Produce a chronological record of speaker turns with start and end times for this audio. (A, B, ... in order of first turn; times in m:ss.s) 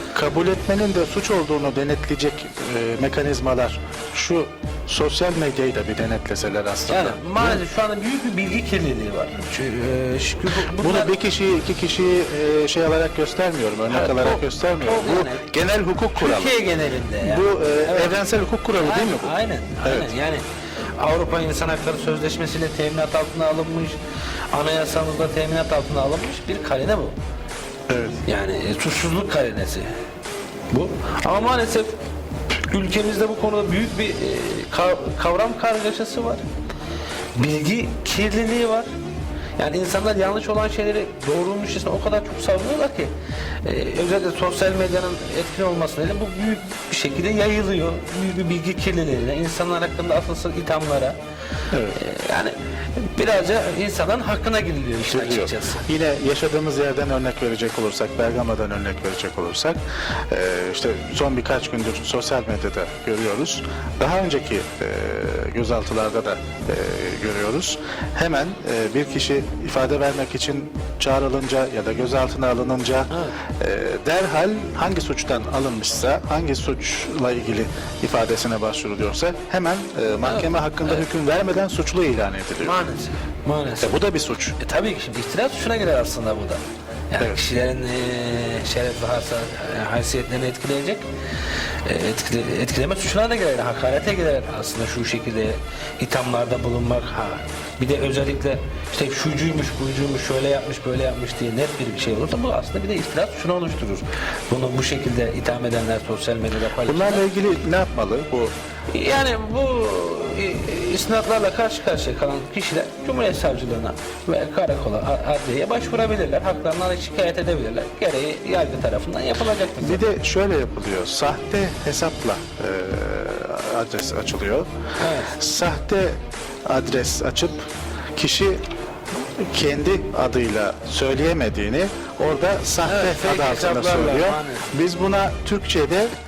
0:00.1-0:07.6 A
0:06.9-0:11.1 B
0:10.6-0:16.5 A
0:13.9-0:15.5 B
0:16.2-0:18.2 B
0:17.2-0:20.1 A
0:18.8-0:20.4 B
0:21.0-0:24.0 B
0:24.5-0:27.2 B
0:27.9-0:28.2 A
0:28.2-0:29.9 B
0:30.7-0:32.0 B
0:32.7-0:36.4 B
0:37.3-0:38.9 B
0:39.6-0:51.2 B
0:51.7-0:52.0 A
0:51.9-0:55.8 B
0:55.1-0:59.8 A
1:00.3-1:22.8 A
1:13.1-1:13.4 B
1:20.2-1:21.0 B
1:22.6-1:24.0 B
1:23.8-1:24.5 A
1:24.6-1:31.0 B
1:31.8-1:47.2 B
1:46.8-1:48.5 A
1:48.9-2:00.1 B
1:59.8-2:04.7 A
2:05.0-2:05.4 B
2:05.4-2:07.6 A
2:08.2-2:08.6 A
2:09.4-2:16.1 A
2:12.8-2:14.7 B